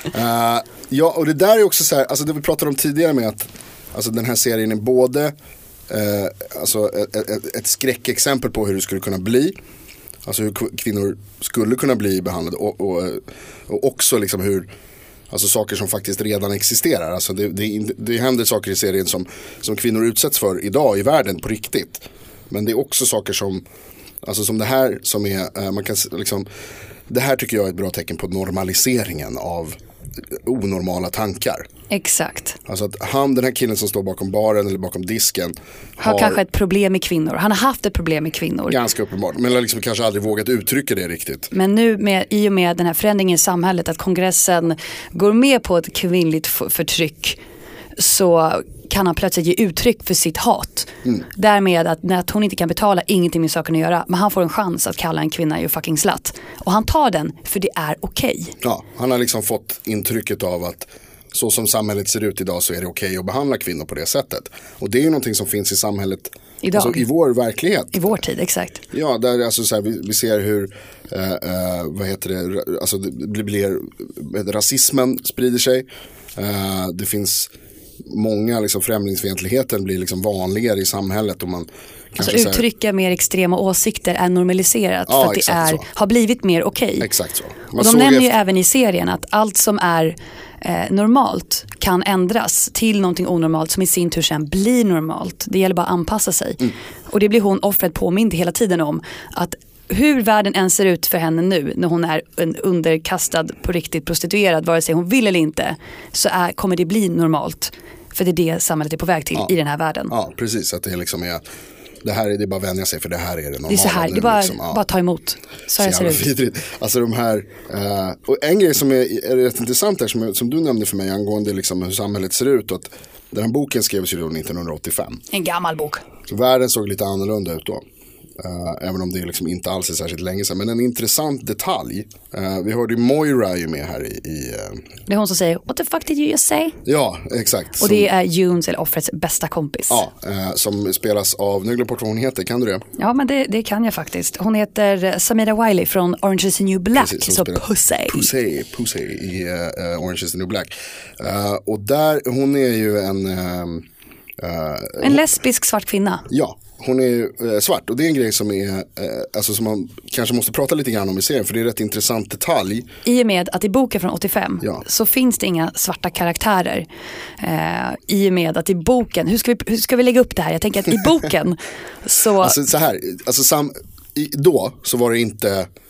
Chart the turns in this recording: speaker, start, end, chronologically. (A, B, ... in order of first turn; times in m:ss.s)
0:00.1-0:05.4 A
0:05.9-0:09.6 A
0:10.2-0:14.7 A
0:15.3-0:23.6 A
0:24.2-0:26.5 A
0:27.1-0:29.8 A
0:30.4-0:31.6 A
0:31.9-0:32.6 B
0:32.7-0:36.4 A
0:36.0-0:38.8 B
0:38.7-0:41.5 A
0:41.5-0:47.4 B
0:48.0-0:58.6 B
0:58.6-1:08.1 A
1:06.6-1:07.1 B
1:07.9-1:08.8 B
1:08.9-1:17.5 A
1:18.1-1:22.6 A
1:22.2-1:27.1 B
1:25.1-1:25.9 A
1:27.0-1:28.4 A
1:27.8-1:50.1 B
1:50.1-1:51.4 A
1:52.0-1:54.8 A
1:53.7-1:56.2 B
1:55.8-2:05.2 A
2:05.3-2:06.0 B
2:06.3-2:07.8 A
2:08.4-2:14.8 A
2:15.1-2:16.8 B
2:16.8-2:18.1 A
2:17.8-2:20.0 B
2:19.9-2:22.8 A
2:23.0-2:28.3 B
2:26.9-2:33.8 A
2:34.4-2:35.3 A
2:35.0-2:36.3 B
2:36.3-2:42.9 A
2:43.0-2:46.9 B
2:47.4-2:52.6 B
2:52.4-2:55.7 A